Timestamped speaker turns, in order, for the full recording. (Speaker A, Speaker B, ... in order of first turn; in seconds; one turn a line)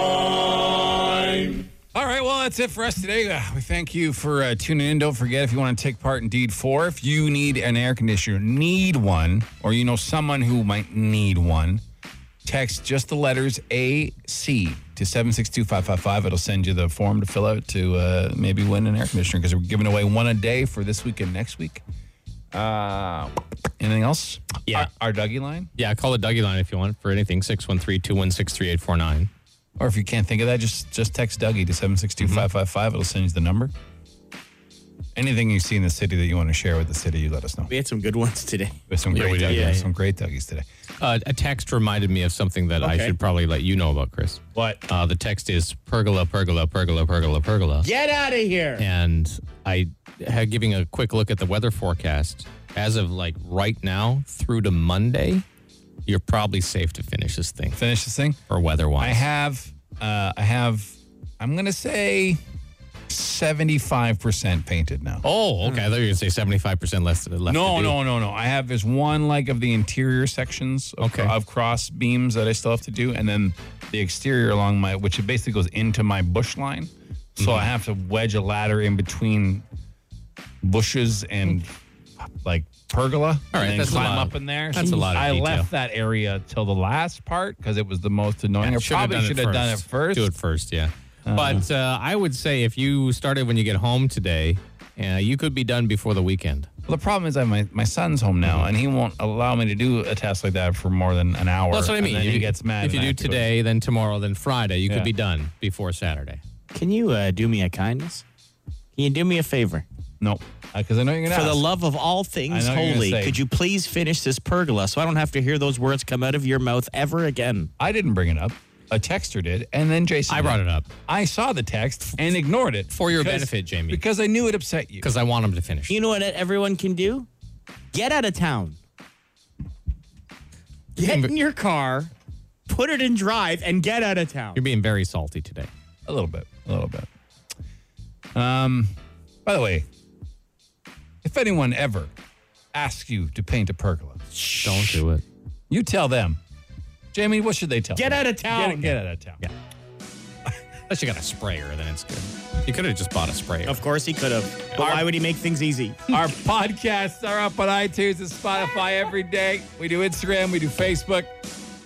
Speaker A: 1.9-11.8
Speaker A: 12.4-21.8
Speaker A: 22.5-25.7
Speaker B: 25.8-29.3
Speaker A: 29.8-33.7
Speaker B: 32.2-32.5
Speaker A: 35.1-37.7
Speaker C: 37.7-38.8
Speaker A: 38.9-40.6
Speaker B: 39.1-39.9
Speaker C: 39.5-39.8
Speaker B: 41.0-47.9
Speaker C: 42.8-43.1
Speaker A: 44.5-44.8
Speaker C: 47.8-48.8
Speaker B: 48.8-55.5
Speaker B: 56.0-57.8
Speaker A: 57.7-58.4
Speaker B: 58.5-59.2
Speaker A: 59.0-62.4
Speaker A: 63.1-65.2
Speaker B: 65.2-68.0
Speaker A: 67.5-79.7
Speaker B: 71.0-71.3
Speaker B: 77.4-77.7
Speaker A: 80.6-90.3
Speaker B: 83.5-85.7
Speaker B: 88.6-96.7
Speaker A: 91.2-91.6
Speaker A: 96.9-103.5
Speaker B: 101.7-106.4
Speaker C: 106.7-108.2
Speaker C: 108.9-109.8
Speaker A: 110.2-111.6
Speaker C: 111.3-117.7
Speaker A: 112.5-113.4
Speaker A: 117.8-125.1
Speaker B: 120.3-120.9
Speaker B: 122.9-124.0
Speaker B: 125.0-126.0
Speaker C: 125.9-127.3
Speaker C: 127.9-128.8
Speaker C: 130.9-132.1
Speaker B: 131.0-131.3
Speaker C: 132.7-134.6
Speaker B: 134.5-135.7
Speaker A: 136.1-137.1
Speaker A: 138.3-138.9
Speaker A: 139.4-139.9
Speaker A: 141.2-142.1
Speaker A: 142.7-145.0
Speaker B: 144.6-145.2
Speaker A: 145.7-146.4
Speaker A: 147.1-149.4
Speaker C: 147.9-149.0
Speaker B: 150.9-153.8
Speaker C: 153.7-156.0
Speaker A: 154.8-155.1
Speaker A: 156.1-161.3